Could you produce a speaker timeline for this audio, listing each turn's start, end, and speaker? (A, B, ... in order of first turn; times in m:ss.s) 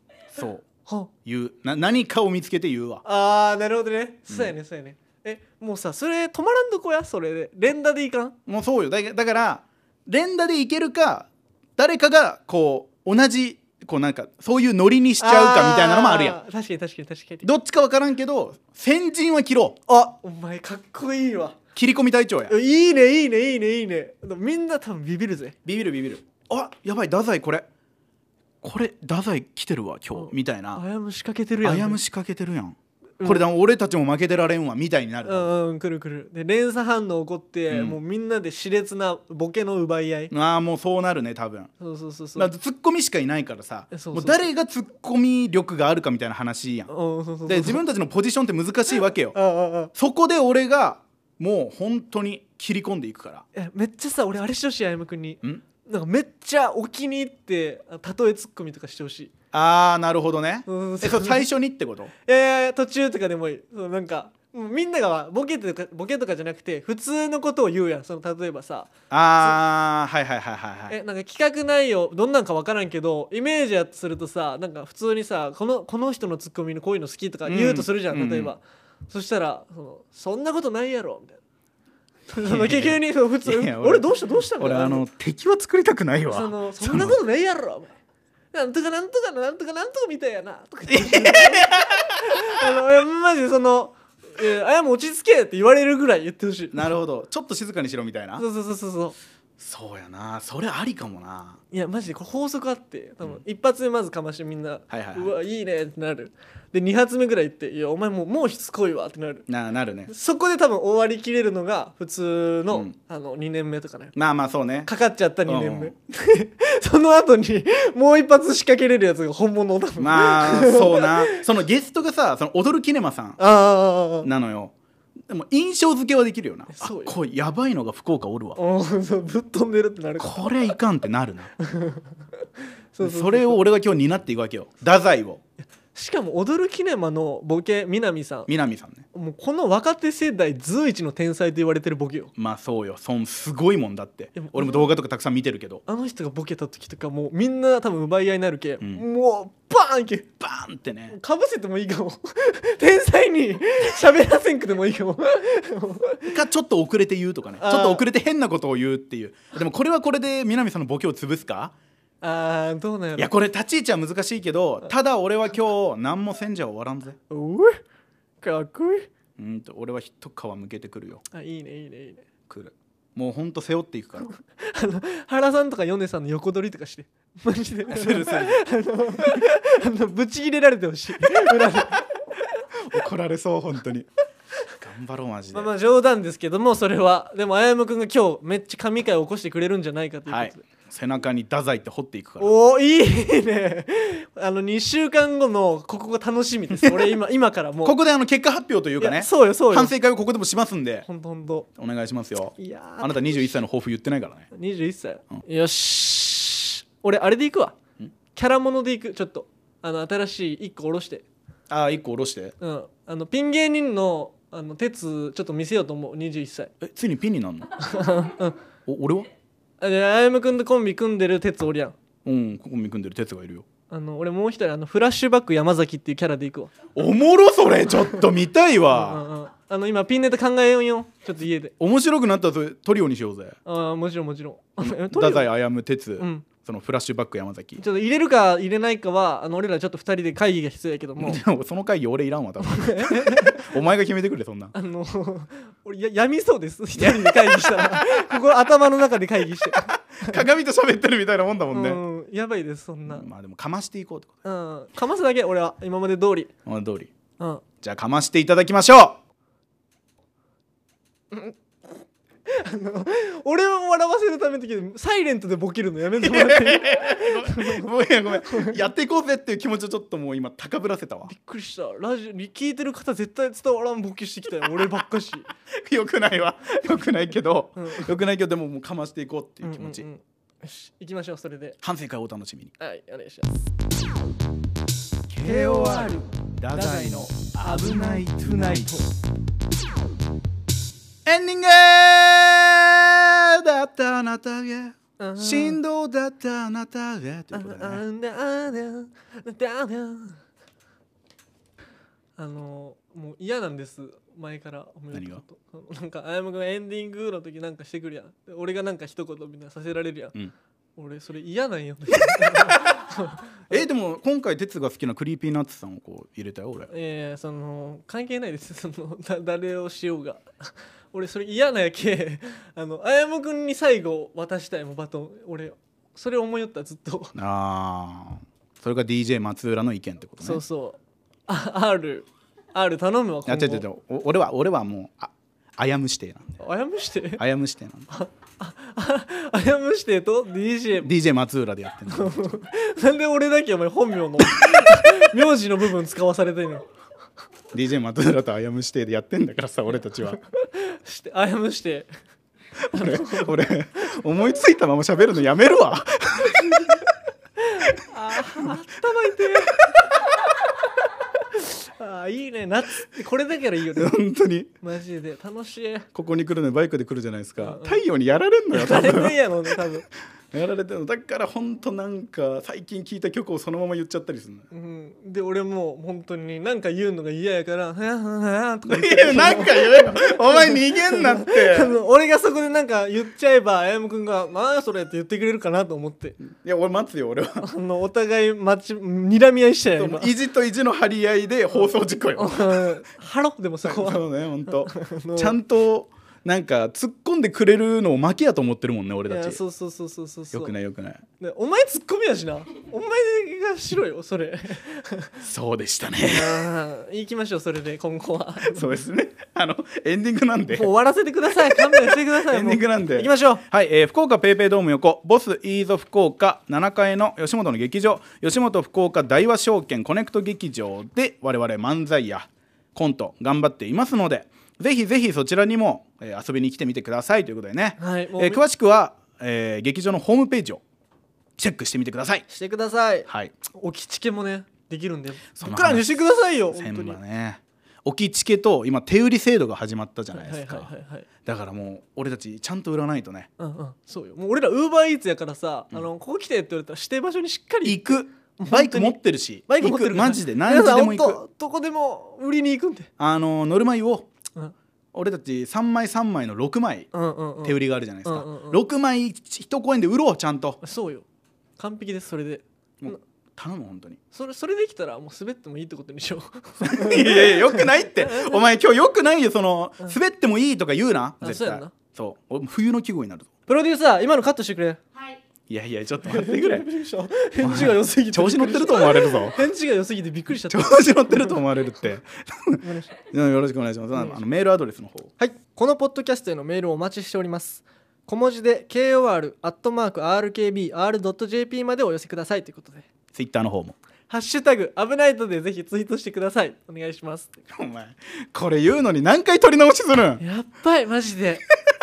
0:00.3-0:00.6 A
0:00.8-0:01.1 B
0:01.2-0:03.0 A
0:03.0-0:08.3 B
0:04.3-0:04.5 A
0:08.5-0:16.4 A
0:15.2-0:17.5 B
0:17.4-0:19.8 A
0:19.9-0:21.6 B
0:21.7-0:22.5 A
0:22.5-0:25.6 B
0:25.6-0:27.6 A
0:28.6-0:30.8 A
0:30.1-0:32.0 B
0:31.6-0:35.5 A
0:35.2-0:40.3 B
0:37.7-0:38.0 A
0:40.3-0:41.7 A
0:41.8-0:42.5 B
0:42.4-0:46.9 A
0:43.9-0:44.5 B
0:46.9-0:47.8 B
0:47.4-0:49.4 A
0:49.3-0:49.9 B
0:49.9-0:53.4 A
0:53.5-0:59.3 B
0:59.5-1:02.1 A
1:00.7-1:01.4 B
1:02.2-1:09.6 B
1:09.1-1:11.0 A
1:10.9-1:21.4 B
1:17.5-1:18.5 A
1:22.3-1:25.0 B
1:22.4-1:27.2 A
1:26.3-1:27.9 B
1:28.5-1:36.9 B
1:30.9-1:32.7 A
1:36.7-1:38.4 A
1:38.4-1:39.1 B
1:39.6-1:41.6 A
1:41.7-1:49.4 B
1:44.9-1:45.3 A
1:49.5-1:50.1 A
1:50.1-1:54.1 B
1:54.1-1:54.9 A
1:54.8-2:01.4 B
1:55.5-1:55.9 A
2:00.0-2:03.4 A
2:03.4-2:04.3 B
2:04.2-2:04.7 A
2:05.3-2:08.6 A
2:06.7-2:07.1 B
2:08.6-2:10.7 B
2:10.2-2:11.5 A
2:11.6-2:12.1 B
2:12.9-2:13.6 B
2:13.0-2:15.4 A
2:15.6-2:18.5 B
2:18.5-2:19.0 A
2:19.1-2:22.3 B
2:22.4-2:25.8 A
2:24.4-2:25.0 B
2:25.9-2:30.3 B
2:30.4-2:31.2 A
2:31.1-2:36.4 B
2:36.3-2:41.7 A
2:37.6-2:38.0 B
2:42.2-2:43.3 B
2:43.2-2:47.2 A
2:47.3-2:47.8 B
2:48.4-2:49.1 B
2:49.4-2:51.2 A
2:51.3-2:52.2 B
2:52.5-2:54.3 A
2:54.3-3:02.2 B
2:57.9-2:58.6 A
3:02.8-3:04.1 A
3:04.8-3:05.7 A
3:05.5-3:10.6 B
3:10.3-3:12.5 A
3:12.4-3:18.0 B
3:16.7-3:17.1 A
3:17.8-3:21.0 A
3:19.0-3:19.9 B
3:21.0-3:21.7 B
3:21.8-3:24.5 A
3:22.6-3:23.3 B
3:24.5-3:27.7 B
3:28.3-3:31.2 B
3:31.7-3:32.5 A
3:32.6-3:36.7 B
3:36.8-3:37.7 A
3:37.8-3:38.6 B
3:38.8-3:39.3 A
3:39.8-3:41.9 B
3:42.2-3:43.6 A
3:43.9-3:46.7 B
3:46.9-3:49.2 A
3:48.9-3:51.7 B
3:51.8-3:53.6 A
3:53.6-3:55.5 B
3:54.8-3:57.8 A
3:56.2-3:56.4 B
3:57.8-4:01.4 B
4:01.2-4:04.7 A
4:02.6-4:03.7 B
4:04.7-4:10.4 B
4:07.0-4:08.3 A
4:09.7-4:12.0 A
4:11.7-4:13.2 B
4:13.1-4:14.3 A
4:14.4-4:16.5 B
4:16.6-4:17.1 A
4:17.8-4:19.2 A
4:21.3-4:21.6 B
4:22.5-4:27.9 B
4:26.2-4:31.3 A
4:28.4-4:28.8 B
4:31.3-4:35.5 B
4:34.6-4:35.0 A
4:35.7-4:40.0 A
4:37.8-4:38.1 B
4:39.6-4:41.8 B
4:41.8-4:42.7 A
4:42.8-4:43.6 B
4:45.3-4:49.0 A
4:45.4-4:49.0 B
4:51.2-4:58.0 A
4:55.2-4:55.8 B
4:57.5-5:00.4 B
5:02.4-5:10.4 B
5:05.1-5:05.4 A
5:11.0-5:13.8 B
5:12.4-5:12.8 A
5:13.7-5:16.9 A
5:16.9-5:27.3 B
5:27.3-5:30.6 A
5:30.4-5:33.8 B
5:33.4-5:36.6 A
5:36.6-5:37.4 B
5:37.4-5:38.1 A
5:38.1-5:41.1 B
5:41.0-5:42.6 A
5:42.1-5:46.8 B
5:44.4-5:45.1 A
5:47.7-5:50.4 A
5:50.2-5:52.1 B
5:52.8-5:57.0 A
5:52.9-5:53.6 B
5:57.6-6:04.2 B
6:03.9-6:04.7 A
6:04.8-6:06.1 B
6:06.1-6:09.8 A
6:07.6-6:08.0 B
6:08.7-6:10.0 B
6:10.5-6:14.6 A
6:14.7-6:26.4 B
6:18.9-6:21.9 A
6:26.4-6:27.7 A
6:27.6-6:30.3 B
6:30.0-6:33.0 A
6:32.4-6:35.6 B
6:33.8-6:39.6 A
6:39.3-6:40.7 B
6:40.5-6:41.2 A
6:41.4-6:45.4 B
6:45.4-6:46.6 A
6:46.3-6:48.8 B
6:48.6-6:50.9 A
6:50.7-6:53.6 B
6:51.6-7:10.8 A
7:08.0-7:08.6 B
7:11.6-7:12.4 A
7:12.5-7:17.2 B
7:13.3-7:13.5 A
7:15.6-7:16.2 A
7:16.7-7:20.9 A
7:20.3-7:21.2 B
7:21.4-7:23.5 A
7:23.6-7:33.1 B
7:27.8-7:31.4 A
7:33.2-7:34.3 A
7:35.1-7:37.1 A
7:37.1-7:38.8 B
7:37.6-7:40.8 A
7:40.8-7:41.2 B
7:41.8-7:43.2 B
7:43.0-7:44.2 A
7:44.3-7:48.6 B
7:46.8-7:53.5 A
7:51.4-7:51.9 B
7:53.7-7:55.0 B
7:55.7-7:56.9 A
7:56.2-8:01.6 B
7:57.6-7:59.6 A
8:00.7-8:05.3 A
8:02.8-8:03.1 B
8:04.1-8:04.4 B
8:05.4-8:13.1 B
8:13.3-8:14.0 A
8:14.3-8:17.6 B
8:17.7-8:20.4 A
8:20.4-8:21.6 B